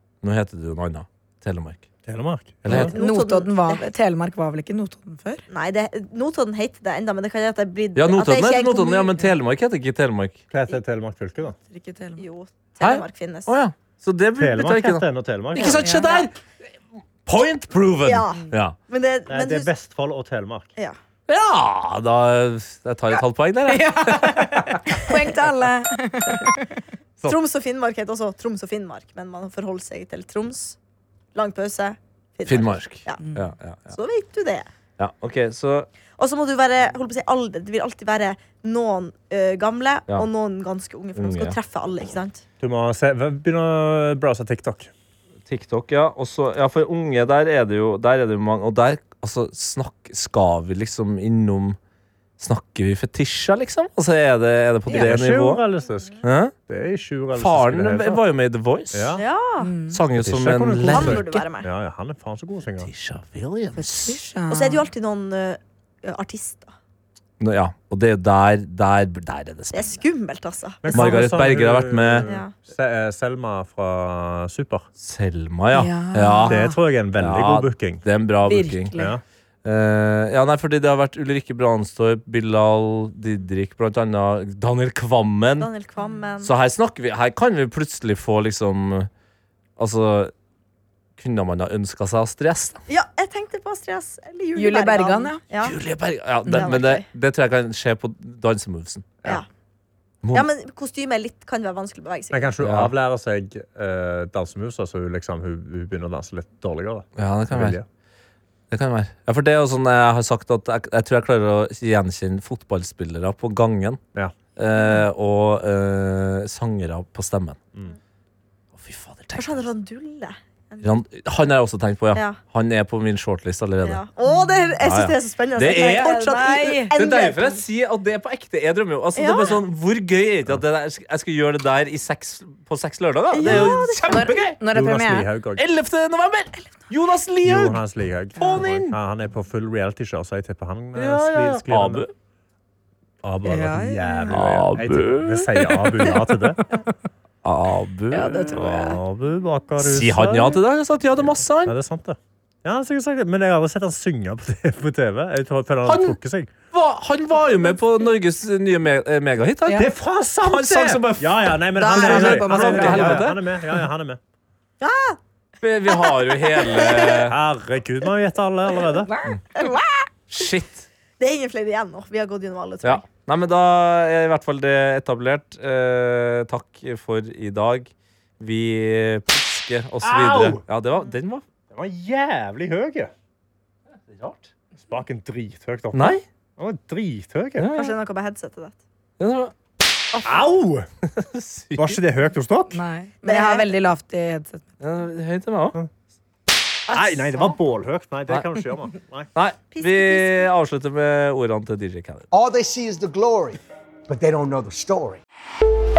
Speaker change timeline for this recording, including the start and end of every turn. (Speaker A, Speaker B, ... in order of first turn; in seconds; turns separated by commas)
Speaker A: 0.2-1.9, Speaker B: 2.1-2.9, Speaker A: 2.6-2.9, Speaker C: 2.7-5.4, Speaker D: 2.7-3.9, Speaker D: 5.5-9.2, Speaker A: 8.0-10.4, Speaker B: 10.5-11.6, Speaker C: 11.6-12.2, Speaker D: 12.2-13.5, Speaker A: 12.8-16.3, Speaker B: 14.4-15.8, Speaker C: 15.6-16.2, Speaker D: 15.6-16.3, Speaker A: 17.3-18.8, Speaker D: 18.1-19.7, Speaker B: 19.3-20.7, Speaker A: 21.3-25.0, Speaker C: 23.7-26.7, Speaker D: 27.2-30.8, Speaker D: 31.4-33.2, Speaker A: 32.5-34.0, Speaker C: 33.2-33.5, Speaker D: 33.9-34.7, Speaker A: 35.0-35.9, Speaker D: 36.2-42.4, Speaker A: 41.2-41.6, Speaker B: 42.6-44.9, Speaker A: 45.5-51.8, Speaker A: 52.4-55.6, Speaker B: 54.9-58.2, Speaker A: 56.2-56.5, Speaker A: 57.4-59.2, Speaker B: 58.9-59.2, Speaker D: 59.1-59.7, Speaker C: 59.6-60.0, Speaker A: 59.9-61.4, Speaker B: 60.1-62.9, Speaker D: 60.8-61.7, Speaker A: 62.8-64.2, Speaker C: 63.8-64.9, Speaker D: 64.5-66.7, Speaker A: 67.4-70.0, Speaker D: 69.7-71.3, Speaker B: 70.8-74.9, Speaker A: 70.9-72.3, Speaker D: 72.3-72.5, Speaker A: 75.0-76.6, Speaker C: 75.7-76.8, Speaker B: 76.5-78.0, Speaker A: 77.2-79.1, Speaker C: 78.4-79.1, Speaker B: 79.0-79.2, Speaker A: 79.6-85.7, Speaker D: 85.6-86.5, Speaker A: 86.4-89.1, Speaker A: 89.8-90.3, Speaker A: 91.2-92.8, Speaker D: 92.9-95.8, Speaker C: 94.6-95.4, Speaker A: 95.6-99.2, Speaker D: 96.5-97.1, Speaker A: 100.2-100.5, Speaker D: 100.3-102.5, Speaker B: 102.3-107.9, Speaker A: 102.6-102.9, Speaker A: 107.2-107.8, Speaker A: 108.7-114.0, Speaker A: 114.6-117.6, Speaker A: 118.7-119.7, Speaker D: 119.3-120.9, Speaker A: 120.8-124.0, Speaker D: 123.8-127.6, Speaker A: 124.8-134.6, Speaker C: 126.0-126.9, Speaker D: 129.2-129.6, Speaker D: 133.3-134.1, Speaker C: 133.4-135.3, Speaker B: 134.7-135.7, Speaker A: 135.6-137.8, Speaker B: 137.4-142.1, Speaker A: 138.4-138.9, Speaker C: 138.4-138.7, Speaker A: 140.9-142.1, Speaker B: 143.2-146.6, Speaker C: 143.5-144.3, Speaker A: 144.3-146.1, Speaker A: 147.4-149.0, Speaker C: 148.1-148.8, Speaker B: 148.5-150.6, Speaker A: 149.8-151.8, Speaker B: 151.6-156.5, Speaker A: 155.8-156.2, Speaker A: 156.7-159.9, Speaker B: 159.8-164.2, Speaker A: 160.4-163.4, Speaker C: 161.8-163.3, Speaker D: 164.8-165.2, Speaker A: 165.6-167.4, Speaker D: 166.0-167.0, Speaker B: 167.1-169.1, Speaker C: 169.1-170.1, Speaker A: 170.3-170.9, Speaker D: 171.2-173.0, Speaker A: 172.8-181.4, Speaker B: 180.0-180.6, Speaker B: 181.7-183.1, Speaker A: 184.1-184.5, Speaker B: 184.8-187.7, Speaker A: 185.9-186.2, Speaker A: 187.6-188.0, Speaker D: 187.7-188.8, Speaker A: 189.2-189.5, Speaker B: 190.2-190.9, Speaker A: 191.2-192.0, Speaker B: 191.8-192.8, Speaker C: 192.7-194.7, Speaker D: 193.2-193.7, Speaker A: 194.8-195.8, Speaker B: 196.9-199.3, Speaker A: 197.0-197.4, Speaker A: 198.3-198.5, Speaker A: 199.3-202.3, Speaker D: 199.7-200.5, Speaker E: 202.3-205.2